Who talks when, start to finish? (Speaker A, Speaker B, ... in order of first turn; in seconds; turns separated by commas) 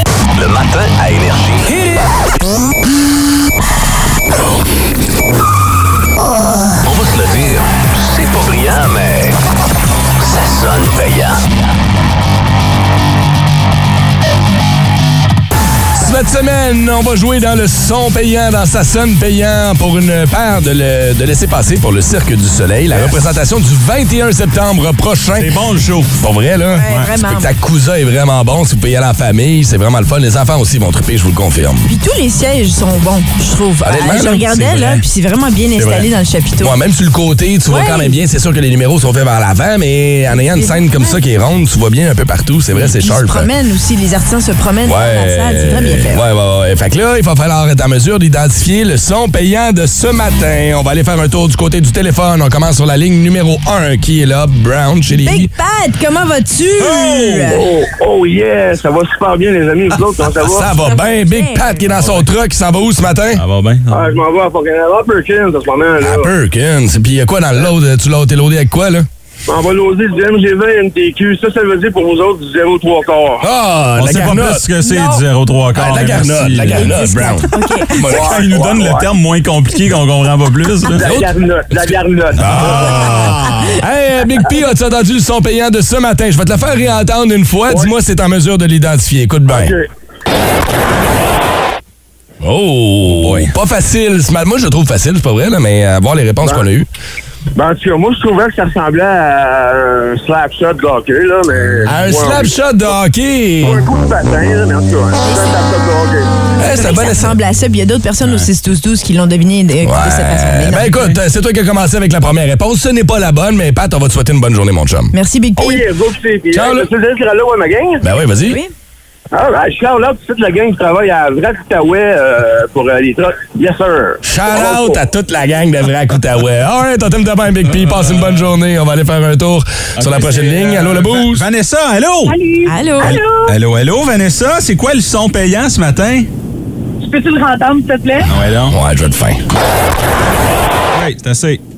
Speaker A: 0.3-1.8, Speaker A: 6.8-9.4, Speaker A: 10.2-11.5, Speaker B: 15.9-25.5, Speaker C: 22.9-23.1, Speaker C: 25.4-26.1, Speaker B: 26.2-31.9, Speaker D: 26.7-27.5, Speaker D: 31.9-36.7, Speaker B: 33.8-34.6, Speaker C: 34.6-35.0, Speaker C: 35.8-36.1, Speaker B: 36.6-43.5, Speaker D: 37.7-38.1, Speaker D: 40.3-41.2, Speaker D: 42.8-46.2, Speaker B: 44.9-55.5, Speaker D: 55.2-57.7, Speaker C: 56.8-57.6, Speaker E: 57.5-60.6, Speaker B: 60.3-63.4, Speaker D: 60.7-61.9, Speaker C: 61.9-62.3, Speaker C: 63.3-64.2, Speaker E: 63.9-66.3, Speaker B: 66.0-69.1, Speaker E: 69.5-73.4, Speaker B: 73.4-74.6, Speaker C: 74.0-76.9, Speaker D: 74.8-75.2, Speaker B: 75.7-78.5, Speaker D: 76.7-77.9, Speaker C: 78.0-81.2, Speaker E: 78.1-79.1, Speaker E: 81.0-83.2, Speaker B: 81.0-81.3, Speaker B: 82.4-89.7, Speaker C: 82.4-83.2, Speaker E: 89.5-89.8, Speaker B: 92.4-96.9, Speaker C: 93.0-93.5, Speaker E: 97.5-102.5, Speaker B: 101.8-103.8, Speaker E: 103.6-106.2, Speaker D: 105.2-105.5, Speaker B: 106.6-107.3, Speaker D: 106.7-111.1, Speaker C: 108.2-108.5, Speaker B: 109.8-115.1, Speaker D: 115.1-115.8, Speaker E: 115.6-118.0, Speaker B: 116.5-116.9, Speaker B: 118.0-118.6, Speaker D: 118.4-118.7, Speaker E: 119.3-125.0, Speaker B: 124.2-131.4, Speaker C: 127.7-128.5, Speaker C: 130.0-132.4, Speaker F: 132.3-133.5, Speaker D: 132.7-133.2, Speaker C: 133.0-136.3, Speaker F: 137.0-138.3, Speaker C: 138.2-138.8, Speaker B: 138.7-139.4, Speaker C: 140.9-141.6